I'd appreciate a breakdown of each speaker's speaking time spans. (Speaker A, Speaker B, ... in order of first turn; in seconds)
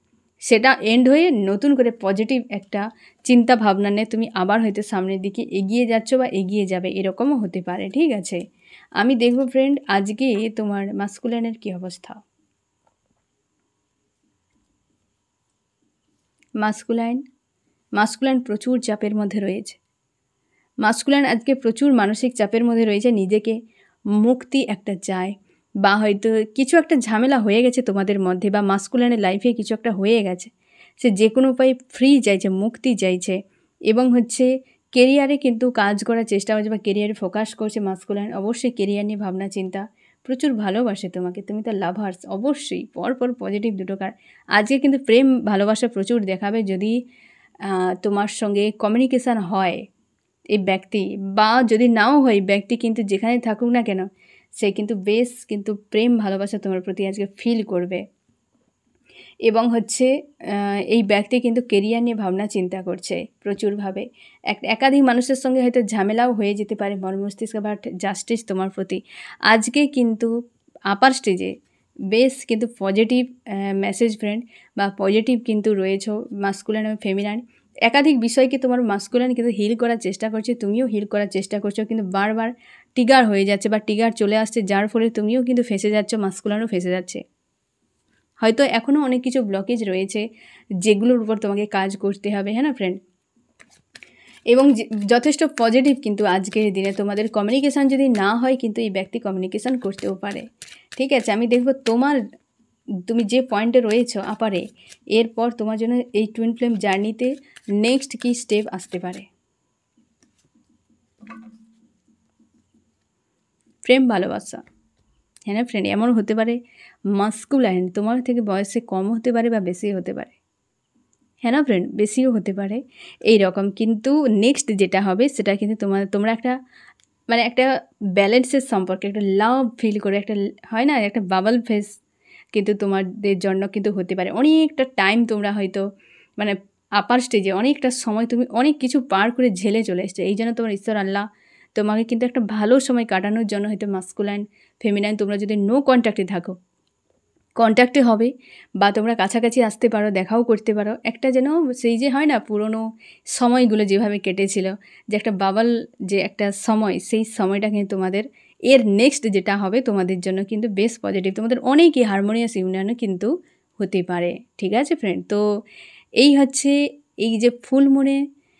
Speaker A: 0.5-8.4, 9.0-12.2, 16.6-17.2, 18.0-19.8, 20.8-23.6, 24.2-33.4, 33.9-47.0, 47.6-49.8, 50.5-54.1, 54.6-58.0, 59.5-70.3, 70.9-71.5, 72.1-87.2, 88.4-90.2, 90.8-93.0, 94.5-102.2, 103.1-109.3, 113.8-114.6, 115.5-116.6, 117.1-120.3, 121.4-126.6, 127.3-132.0, 132.5-135.8, 136.4-146.6, 147.6-165.4, 166.2-168.2